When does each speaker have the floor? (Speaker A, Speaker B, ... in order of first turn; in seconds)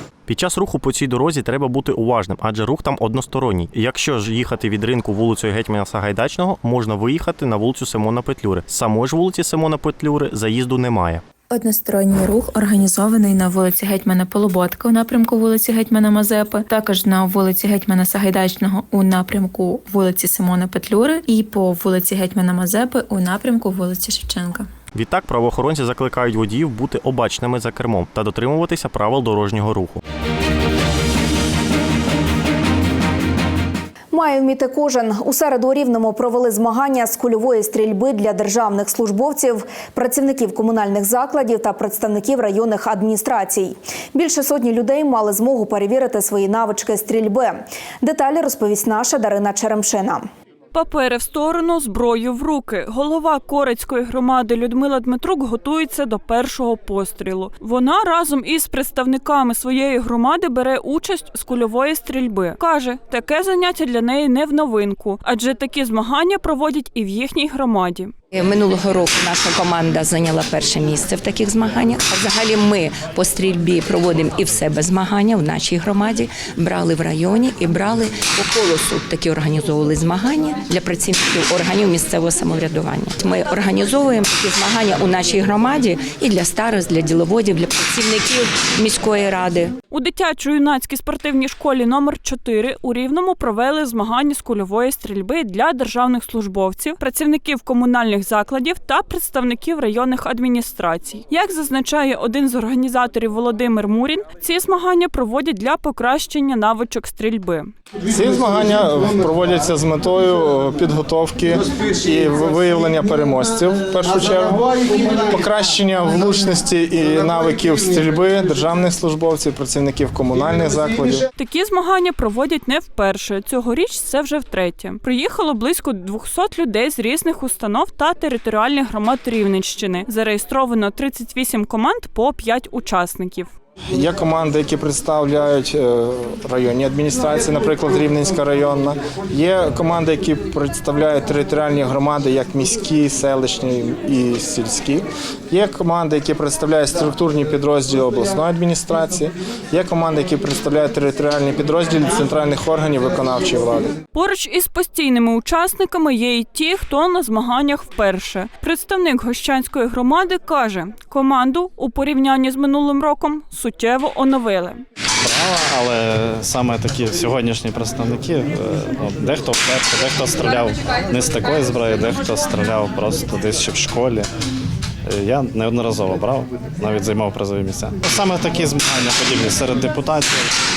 Speaker A: 0.3-11.2, 24.9-30.0
Speaker B: 11.5-24.7
Speaker C: 34.1-50.3
Speaker D: 50.7-68.1, 89.9-107.7, 121.3-133.5, 154.1-164.8
Speaker E: 68.3-89.8
Speaker F: 108.1-121.2, 133.9-153.9
Speaker G: 165.2-174.3, 175.1-180.5